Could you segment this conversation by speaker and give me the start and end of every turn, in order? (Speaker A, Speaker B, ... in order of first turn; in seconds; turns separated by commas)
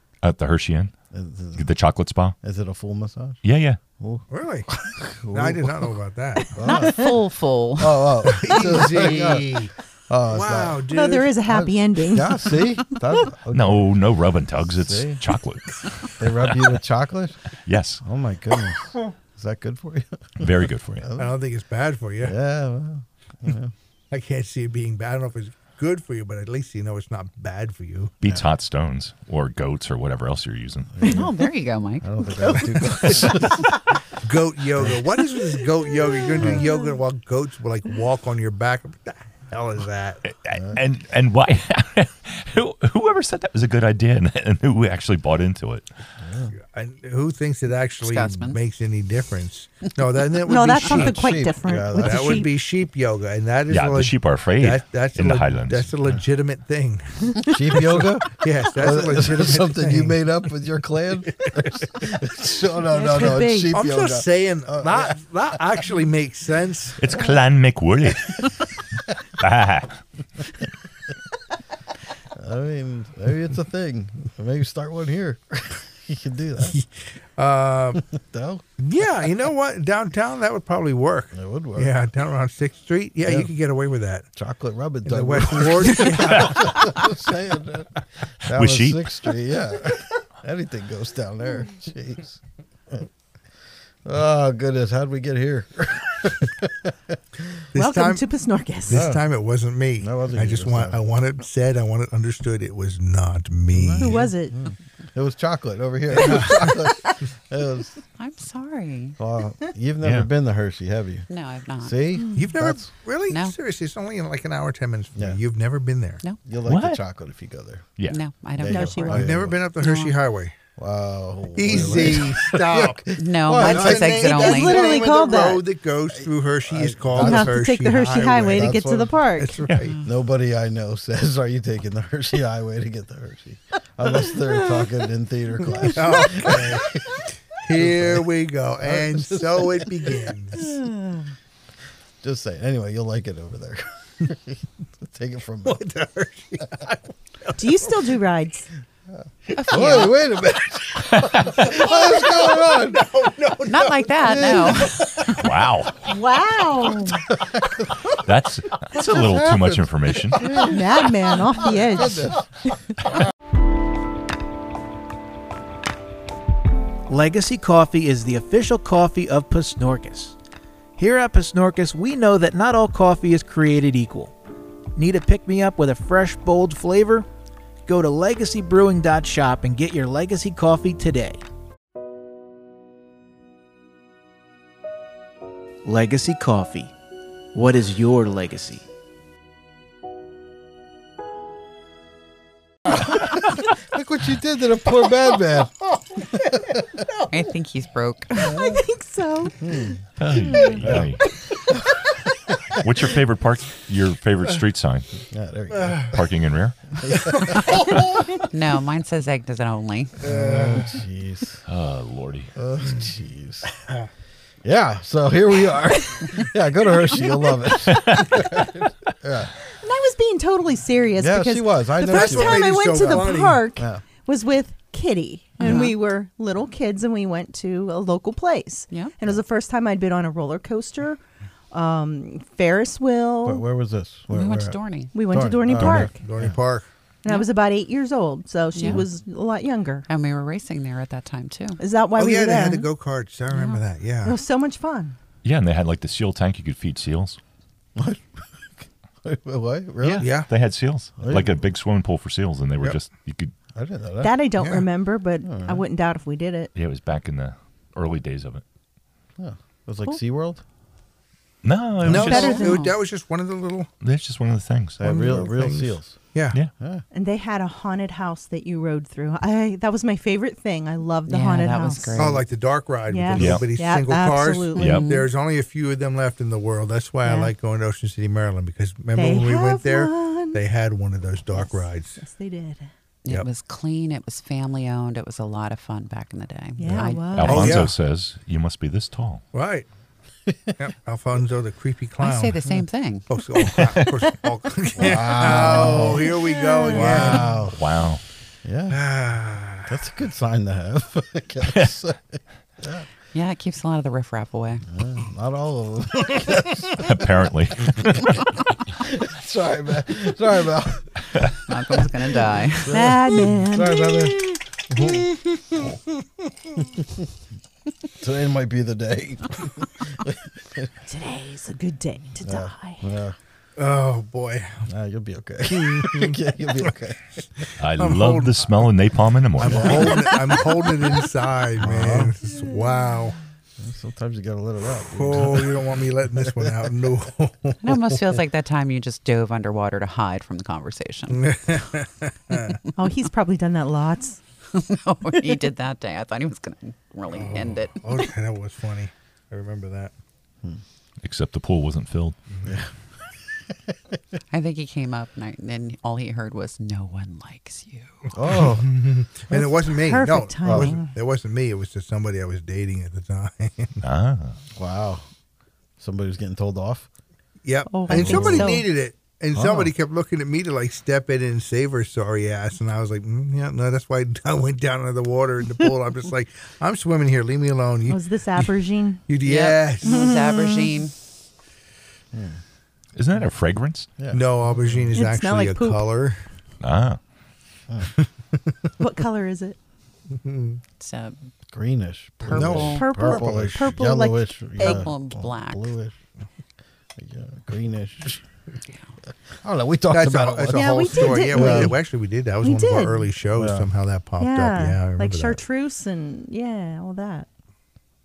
Speaker A: 0.2-0.9, Speaker B: 1.1-1.7, Speaker A: 1.6-2.4, Speaker B: 2.4-3.4, Speaker A: 3.4-3.8, Speaker B: 4.0-6.0, Speaker C: 4.3-4.7, Speaker C: 5.3-6.5, Speaker B: 6.5-7.2, Speaker D: 6.6-7.1, Speaker E: 6.7-8.5, Speaker B: 7.8-10.8, Speaker C: 8.2-9.7, Speaker C: 10.3-11.3, Speaker D: 10.9-12.6, Speaker B: 11.4-14.0, Speaker A: 13.5-16.8, Speaker B: 14.8-15.2, Speaker B: 16.2-21.3, Speaker A: 17.6-18.0, Speaker A: 20.4-21.1, Speaker C: 21.1-22.4, Speaker B: 22.2-23.7, Speaker C: 24.1-28.2, Speaker A: 28.2-31.0, Speaker B: 30.9-33.7, Speaker E: 31.0-32.6, Speaker C: 32.8-33.5, Speaker C: 34.2-40.2, Speaker B: 36.4-36.6, Speaker A: 40.3-45.9, Speaker B: 40.5-40.8, Speaker B: 46.2-46.5, Speaker C: 46.6-51.3, Speaker E: 48.0-48.6, Speaker D: 50.5-52.5, Speaker B: 50.8-52.5, Speaker C: 52.0-60.2, Speaker A: 53.7-55.9, Speaker B: 57.4-65.2, Speaker C: 61.4-61.8, Speaker D: 63.0-63.7, Speaker C: 63.7-67.0, Speaker A: 67.0-68.6, Speaker A: 69.4-70.0, Speaker B: 72.3-76.8, Speaker C: 76.6-78.0, Speaker B: 78.0-78.6, Speaker C: 78.8-84.3, Speaker B: 81.3-81.9, Speaker B: 83.2-83.5, Speaker B: 84.3-93.1, Speaker C: 85.0-87.0, Speaker A: 88.5-89.1, Speaker B: 94.0-97.6, Speaker C: 97.7-98.2, Speaker D: 97.8-99.0, Speaker C: 98.9-104.3, Speaker B: 98.9-99.2, Speaker B: 100.0-101.0, Speaker B: 103.7-108.0, Speaker D: 104.0-104.5, Speaker C: 106.1-106.9, Speaker E: 108.2-109.2, Speaker B: 109.2-112.9, Speaker A: 110.0-110.3, Speaker E: 111.3-112.0, Speaker C: 112.4-116.2, Speaker E: 113.3-113.5, Speaker B: 116.4-118.0, Speaker A: 116.7-117.0, Speaker E: 118.1-120.2, Speaker B: 118.5-119.7, Speaker D: 118.7-119.4, Speaker C: 119.0-120.6, Speaker B: 120.8-124.5, Speaker C: 121.5-130.0, Speaker E: 123.2-124.8, Speaker D: 123.6-125.6, Speaker B: 126.2-129.2, Speaker D: 127.2-129.6, Speaker B: 130.0-138.3, Speaker C: 135.9-137.0, Speaker C: 137.6-140.6, Speaker B: 138.8-140.7, Speaker D: 140.6-141.3, Speaker B: 142.2-145.8, Speaker C: 145.7-147.6, Speaker D: 147.6-148.7, Speaker B: 149.2-153.1, Speaker E: 149.6-150.2, Speaker C: 149.8-150.1, Speaker A: 151.2-151.6, Speaker C: 151.7-155.3, Speaker E: 153.6-155.3, Speaker B: 154.3-155.0, Speaker A: 155.3-156.1, Speaker D: 156.1-157.2, Speaker A: 158.1-160.7, Speaker B: 158.9-162.5, Speaker D: 160.7-162.7, Speaker F: 167.1-170.3, Speaker F: 171.0-174.3, Speaker F: 175.0-177.3, Speaker F: 177.9-181.4, Speaker F: 185.8-186.9, Speaker F: 187.5-188.8, Speaker B: 192.9-196.8, Speaker E: 197.3-198.7, Speaker D: 198.5-199.6, Speaker B: 199.6-201.1, Speaker A: 200.2-201.2, Speaker E: 200.6-200.8, Speaker A: 202.8-205.2, Speaker B: 205.3-206.2, Speaker C: 205.7-206.1, Speaker A: 206.1-207.0, Speaker B: 207.0-207.9, Speaker E: 208.5-210.2, Speaker C: 210.2-211.0, Speaker B: 210.2-211.6, Speaker A: 211.7-212.5, Speaker B: 212.6-213.7, Speaker C: 213.8-214.1, Speaker B: 214.6-219.6, Speaker A: 217.9-218.2, Speaker D: 219.7-231.2, Speaker B: 221.2-224.0, Speaker C: 222.0-223.7, Speaker E: 225.6-226.0, Speaker D: 231.7-233.6, Speaker B: 233.4-236.6, Speaker E: 234.3-235.2, Speaker D: 235.1-236.2, Speaker C: 235.7-236.9, Speaker D: 237.2-240.1, Speaker E: 238.7-239.1, Speaker E: 240.1-241.8, Speaker D: 241.8-242.9, Speaker C: 242.2-244.4, Speaker E: 243.5-243.8, Speaker D: 244.2-245.2, Speaker A: 245.4-247.4, Speaker B: 248.0-250.3, Speaker A: 250.0-253.5, Speaker C: 250.2-250.5, Speaker B: 251.2-251.6, Speaker B: 253.8-254.4, Speaker D: 254.2-256.7, Speaker C: 254.6-254.9, Speaker B: 255.4-255.8, Speaker A: 256.8-258.6, Speaker B: 259.4-260.6, Speaker A: 261.6-262.7, Speaker C: 262.1-263.9, Speaker D: 262.2-262.8, Speaker E: 262.2-263.0, Speaker A: 264.0-265.4, Speaker B: 265.0-267.0, Speaker C: 265.0-266.6, Speaker D: 267.1-272.4, Speaker E: 271.3-272.4, Speaker C: 272.2-282.2, Speaker D: 273.1-275.0, Speaker A: 273.4-273.6, Speaker E: 274.8-275.3, Speaker A: 274.8-275.0, Speaker D: 277.2-277.5, Speaker D: 279.2-280.6, Speaker D: 281.5-282.9, Speaker E: 283.3-287.8, Speaker D: 286.8-287.7, Speaker A: 287.3-289.4, Speaker C: 287.4-287.9, Speaker C: 289.5-289.9, Speaker B: 290.5-290.8, Speaker C: 290.8-292.6, Speaker E: 292.2-293.4, Speaker C: 293.3-297.6, Speaker A: 293.8-294.1, Speaker B: 295.0-296.3, Speaker D: 295.4-297.4, Speaker B: 296.9-297.8, Speaker A: 297.7-298.2, Speaker B: 298.6-299.0, Speaker C: 298.9-299.9, Speaker B: 299.9-303.1, Speaker E: 303.3-304.8, Speaker B: 304.9-307.3, Speaker A: 307.0-308.6, Speaker B: 307.8-311.6, Speaker E: 311.7-313.2, Speaker B: 312.2-315.9, Speaker D: 312.9-314.6, Speaker B: 318.2-320.9, Speaker D: 321.1-323.0, Speaker B: 322.4-323.4, Speaker C: 323.8-324.9, Speaker B: 324.9-327.3, Speaker C: 325.6-326.9, Speaker C: 327.6-328.9, Speaker A: 327.8-330.2, Speaker C: 329.6-333.4, Speaker B: 329.6-330.4, Speaker D: 330.1-330.9, Speaker B: 331.8-332.4, Speaker B: 333.8-336.7, Speaker C: 335.1-338.0, Speaker E: 337.8-341.8, Speaker C: 341.3-342.8, Speaker D: 343.0-344.4, Speaker E: 344.7-348.1, Speaker C: 347.3-350.1, Speaker A: 351.2-352.4, Speaker B: 352.6-352.9, Speaker E: 354.5-358.3, Speaker B: 358.3-358.9, Speaker C: 358.4-364.0, Speaker D: 359.5-361.1, Speaker B: 360.6-361.0, Speaker A: 364.0-364.6, Speaker B: 364.8-365.2, Speaker B: 366.0-367.1, Speaker C: 367.6-378.7, Speaker D: 367.9-368.9, Speaker B: 368.1-368.7, Speaker B: 369.5-369.9, Speaker D: 378.1-379.2, Speaker C: 379.3-380.3, Speaker E: 379.4-381.1, Speaker D: 380.0-380.9, Speaker B: 382.3-382.6, Speaker A: 383.1-384.1, Speaker B: 384.2-385.2, Speaker C: 384.3-386.4, Speaker D: 385.1-386.0, Speaker A: 386.8-387.2, Speaker D: 389.0-389.8, Speaker C: 390.3-390.8, Speaker E: 391.0-391.4, Speaker B: 391.7-396.1, Speaker E: 392.5-393.1, Speaker C: 392.5-393.9, Speaker D: 392.9-395.1, Speaker E: 394.8-395.9, Speaker B: 397.2-398.4, Speaker B: 399.6-402.0, Speaker C: 400.1-405.6, Speaker D: 400.7-402.0, Speaker D: 402.6-403.2, Speaker B: 403.6-403.9, Speaker D: 404.4-407.5